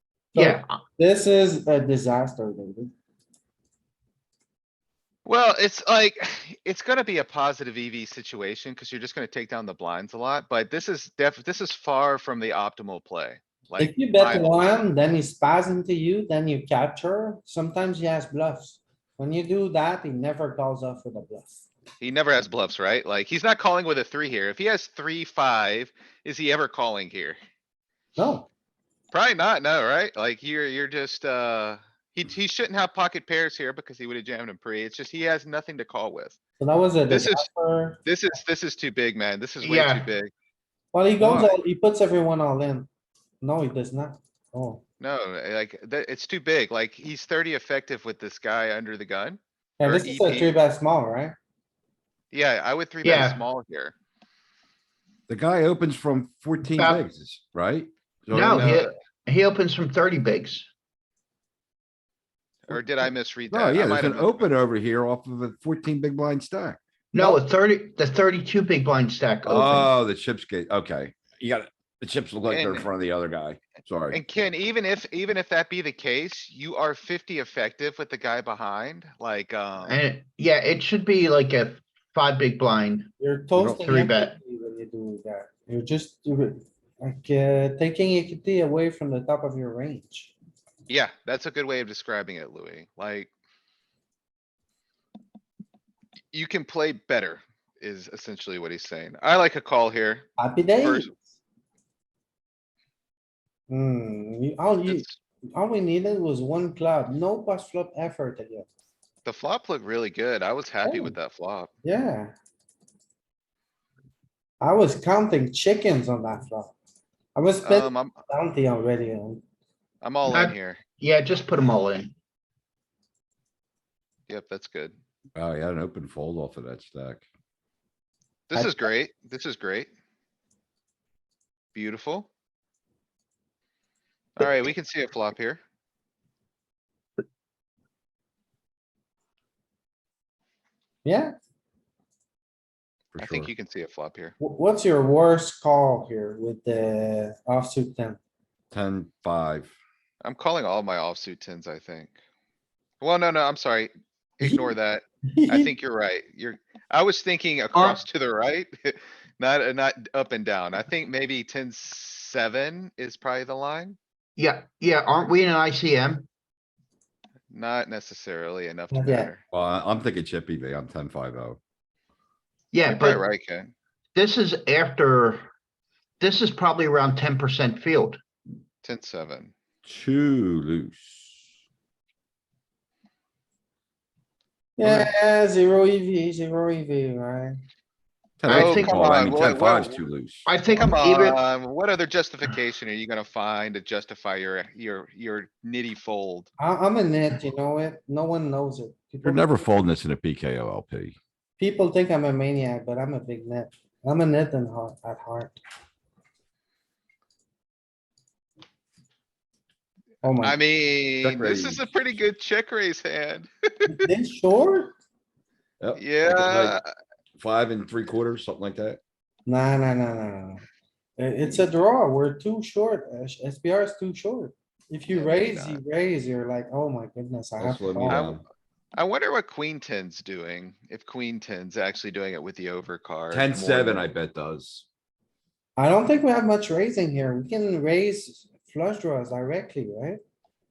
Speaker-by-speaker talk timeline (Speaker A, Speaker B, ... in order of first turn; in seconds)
Speaker A: 0.3-2.9, 13.8-21.7, 28.2-28.5, 36.6-38.0, 40.9-42.9, 43.4-44.8, 49.8-51.3, 83.2-90.3, 100.4-101.2, 103.7-108.7, 110.8-111.2, 111.8-112.3, 114.6-116.7, 117.3-119.4, 141.0-141.3, 144.4-148.2, 155.3-155.7, 168.9-169.3, 184.8-187.6, 196.6-199.7, 201.6-205.6, 210.2-210.6, 213.9-214.9, 219.5-220.6, 221.2-228.3, 235.8-240.2
Speaker B: 0.3-0.7, 39.6-40.1, 53.0-53.4, 56.8-57.1, 58.3-60.7, 67.1-69.9, 79.9-83.1, 83.8-84.4, 120.2-122.1, 157.8-158.0, 164.3-166.3, 172.7-173.2, 174.2-175.5, 176.2-178.2, 188.5-189.3, 190.5-191.4
Speaker C: 5.2-14.7, 22.0-27.4, 29.1-36.4, 37.1-37.5, 38.0-40.3, 45.0-50.6, 52.3-54.0, 58.4-58.9, 62.7-64.5, 72.5-72.9, 74.1-80.0, 90.9-93.3, 96.3-100.3, 100.8-101.1, 104.9-105.1, 109.2-111.7, 117.6-118.2, 120.0-120.8, 124.3-125.0, 128.5-129.9, 131.8-132.3, 134.4-135.6, 143.2-144.3, 150.2-152.2, 153.0-164.0, 167.5-169.4, 172.9-173.7, 178.8-179.5, 188.5-190.0, 190.7-196.5, 210.4-213.9, 216.0-216.8, 225.1-225.8, 228.1-228.4, 229.0-234.1
Speaker D: 41.2-41.5, 55.3-58.8, 63.5-66.8, 69.5-74.2, 83.6-83.8, 125.3-127.2, 143.1-143.5, 148.7-149.7, 169.5-171.6, 179.8-181.3, 188.4-190.5, 199.2-201.2, 211.2-211.9, 215.8-216.8, 217.3-219.0, 227.6-228.4, 233.3-234.8